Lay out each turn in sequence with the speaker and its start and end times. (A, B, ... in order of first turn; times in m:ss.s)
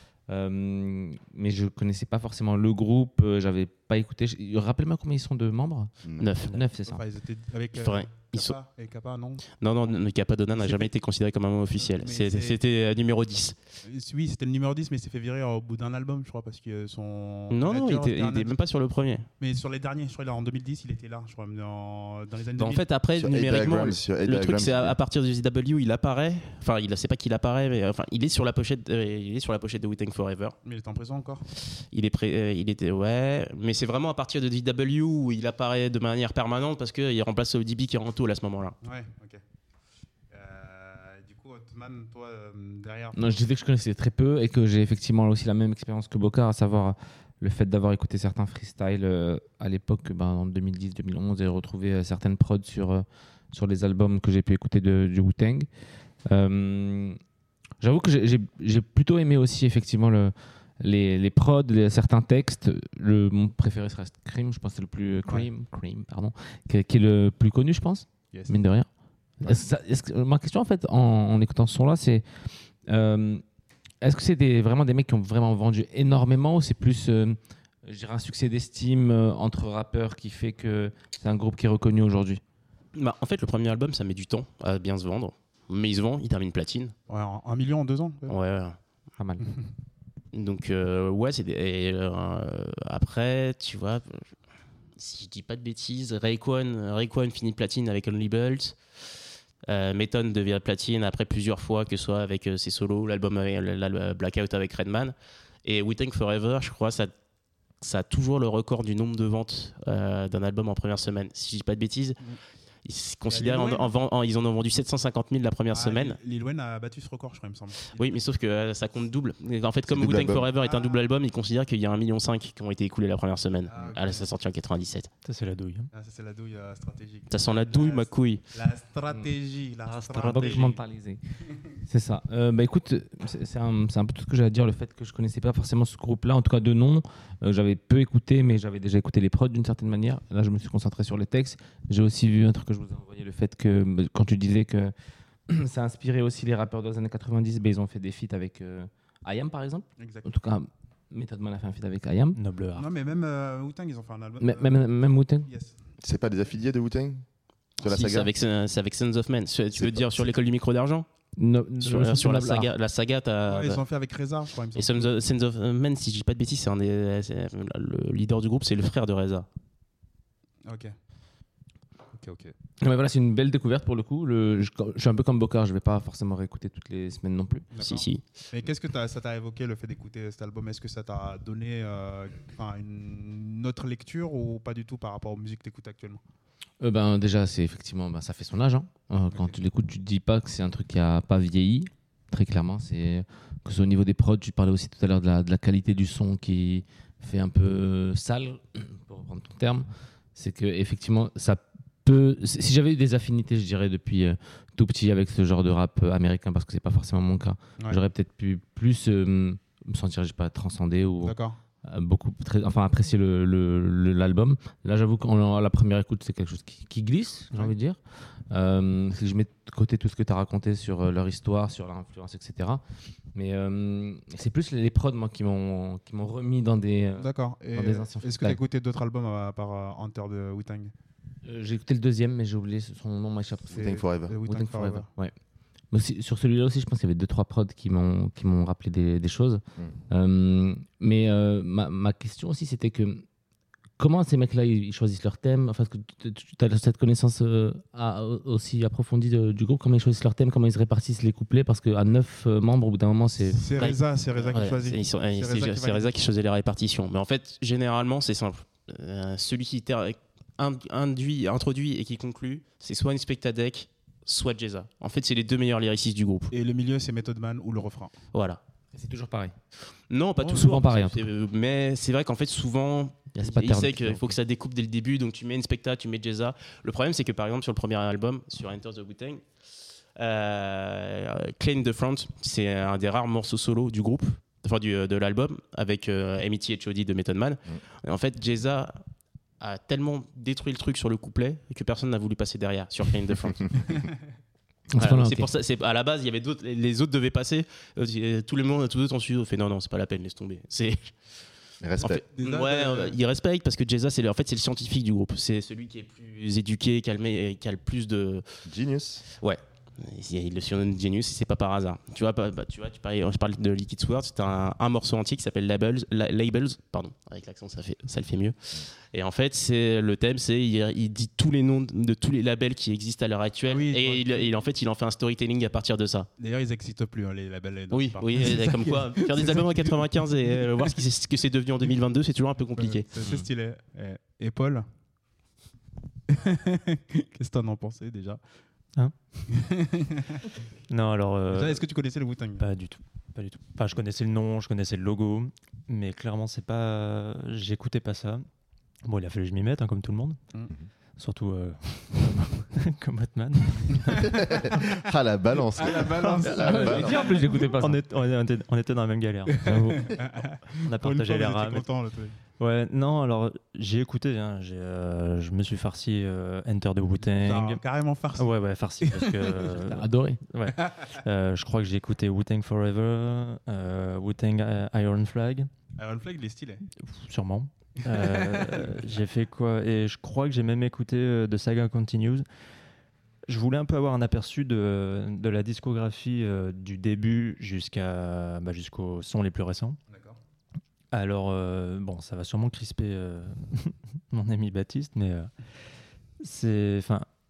0:00.3-0:05.9 A
0:06.0-0:06.3 B
0:06.2-0:06.6 C
0:06.5-0:07.0 A
0:06.8-0:09.5 D
0:07.8-0:08.6 C
0:09.5-0:13.6 C
0:10.6-0:10.9 D
0:11.8-0:12.6 D
0:13.8-0:18.5 D
0:17.5-0:19.3 C
0:19.4-0:22.8 D
0:22.6-0:30.6 C
0:23.2-0:25.0 B
0:30.6-0:31.5 D
0:31.9-0:38.8 C
0:38.8-0:39.4 D
0:40.3-0:43.4 D
0:43.2-0:55.7 A
0:56.3-0:57.2 A
0:57.8-1:08.9 A
1:09.4-1:12.3 A
1:12.9-1:13.4 A
1:14.0-1:22.4 A
1:23.0-1:26.9 C
1:27.1-1:28.4 D
1:28.3-1:28.8 C
1:29.2-1:29.4 A
1:30.3-1:34.2 C
1:35.0-1:38.8 C
1:39.7-1:45.1 C
1:45.6-1:47.1 C
1:47.8-1:52.2 C
1:52.8-1:56.2 C
1:53.3-1:53.9 D
1:55.7-1:58.2 D
1:58.0-2:05.1 C
1:59.9-2:00.5 B
2:00.6-2:01.1 D
2:03.7-2:04.3 D
2:05.2-2:05.9 E
2:05.9-2:10.8 D
2:07.3-2:08.4 C
2:09.9-2:10.8 E
2:10.2-2:11.2 A
2:11.8-2:24.9 A
2:25.5-2:32.4 A
2:30.0-2:30.3 D
2:32.4-2:32.9 E
2:32.8-2:35.8 D
2:34.4-2:35.5 A
2:36.0-2:37.3 B
2:37.8-2:38.3 B
2:37.8-2:41.1 C
2:39.7-2:40.3 B
2:41.4-2:42.7 A
2:41.8-2:43.8 C
2:43.5-2:45.2 D
2:44.8-2:49.5 C
2:50.6-2:50.9 D
2:52.1-2:52.5 D
2:52.8-2:57.7 A
2:57.7-3:06.2 D
2:57.8-2:58.2 C
3:06.8-3:42.8 A
3:09.3-3:09.6 D
3:31.2-3:31.6 D
3:43.3-3:48.6 A
3:47.2-3:50.9 D
3:51.4-3:55.4 A
3:53.7-3:54.4 B
3:53.7-3:55.1 D
3:55.9-4:03.2 A
4:04.0-4:13.7 A
4:13.5-4:16.2 D
4:13.8-4:26.5 C
4:26.5-4:28.2 D
4:28.3-4:28.6 C
4:28.9-4:29.6 A
4:30.1-4:39.4 C
4:30.4-4:31.3 A
4:33.4-4:34.4 A
4:40.2-4:49.0 C
4:49.6-4:53.9 C
4:54.9-4:55.5 A
4:55.0-5:01.1 C
5:01.8-5:02.2 B
5:02.0-5:08.4 C
5:02.3-5:03.2 D
5:08.7-5:09.2 B
5:09.4-5:26.3 C
5:23.7-5:24.6 D
5:26.4-5:31.0 D
5:27.9-5:33.1 C
5:32.8-5:34.9 D
5:36.3-5:38.4 D
5:39.5-5:40.5 D
5:40.9-5:41.8 E
5:41.5-5:42.6 D
5:42.6-5:48.4 E
5:49.0-5:50.4 E
5:51.2-5:54.8 E
5:54.1-5:57.4 B
5:55.8-5:57.4 D
5:56.4-5:58.0 A
5:57.6-6:00.0 E
5:59.6-6:02.4 D
5:59.6-6:00.1 A
6:00.8-6:01.9 E
6:02.6-6:07.8 E
6:07.4-6:08.5 D
6:08.4-6:15.7 E
6:09.0-6:09.8 D
6:09.9-6:10.4 A
6:16.0-6:16.9 D
6:17.0-6:22.5 E
6:18.0-6:19.1 D
6:23.5-6:30.0 E
6:30.1-6:30.4 D
6:31.1-6:35.5 E
6:36.4-6:37.3 E